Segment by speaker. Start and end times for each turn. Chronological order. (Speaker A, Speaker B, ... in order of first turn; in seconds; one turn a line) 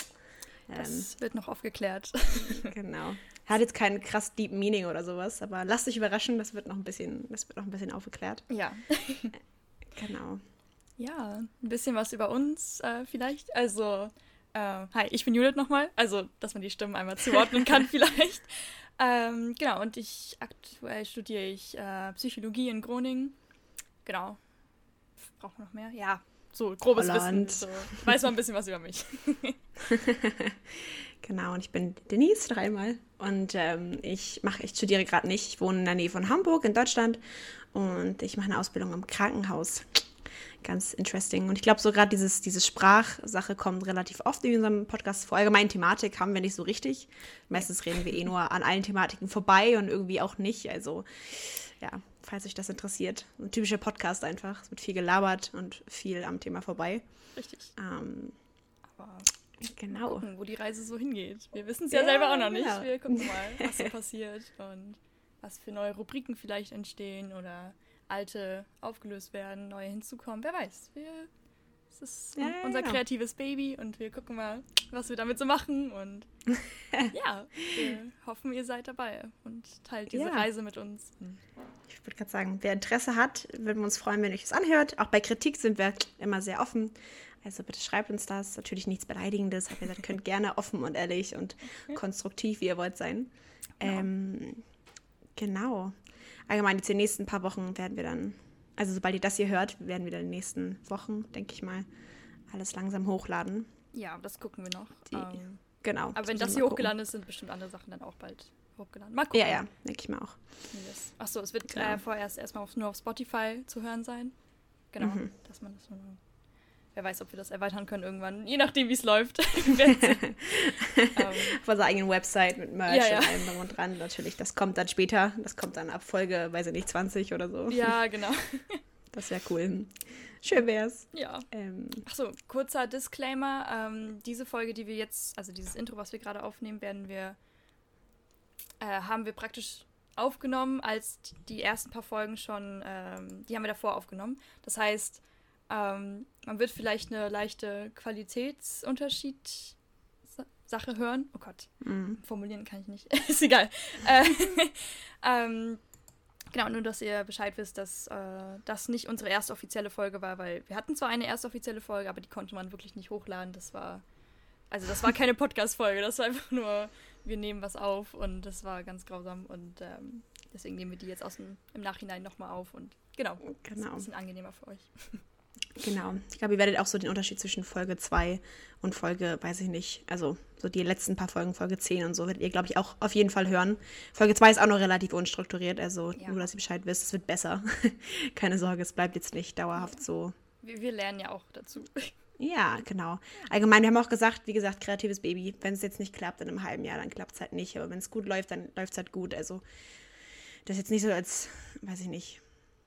Speaker A: 0.7-1.1
Speaker B: 0.7-2.7
Speaker A: 2.5-8.4
Speaker B: 8.5-9.3
Speaker A: 9.9-10.4
Speaker B: 11.0-23.4
Speaker B: 24.0-24.4
Speaker B: 25.2-29.6
Speaker A: 26.9-28.1
Speaker A: 29.9-30.6
Speaker A: 31.2-37.2
Speaker A: 37.7-39.8
Speaker A: 40.6-57.0
Speaker B: 57.4-57.7
Speaker A: 57.8-58.4
Speaker B: 59.0-59.3
Speaker A: 59.6-60.3
Speaker B: 59.9-71.3
Speaker A: 61.9-63.9
Speaker B: 71.9-76.3
Speaker A: 72.4-73.0
Speaker B: 77.1-81.4
Speaker A: 80.1-80.5
Speaker A: 81.9-94.6
Speaker A: 95.3-95.9
Speaker A: 96.5-101.8
Speaker A: 102.5-103.7
Speaker B: 103.9-105.6
Speaker A: 105.8-106.9
Speaker B: 106.1-109.7
Speaker A: 109.3-110.3
Speaker B: 110.7-114.3
Speaker A: 111.7-112.0
Speaker B: 114.9-116.2
Speaker A: 115.0-115.3
Speaker B: 116.9-121.6
Speaker A: 119.7-128.0
Speaker B: 122.9-123.7
Speaker B: 127.7-128.8
Speaker A: 129.1-132.0
Speaker B: 131.1-131.5
Speaker B: 132.0-137.4
Speaker B: 138.8-155.8
Speaker A: 151.8-152.2
Speaker B: 156.5-164.0
Speaker B: 164.7-175.2
Speaker A: 173.6-174.1
Speaker A: 175.8-190.3
Speaker B: 186.2-186.5
Speaker B: 190.6-192.1
Speaker A: 192.4-199.6
Speaker A: 200.7-202.4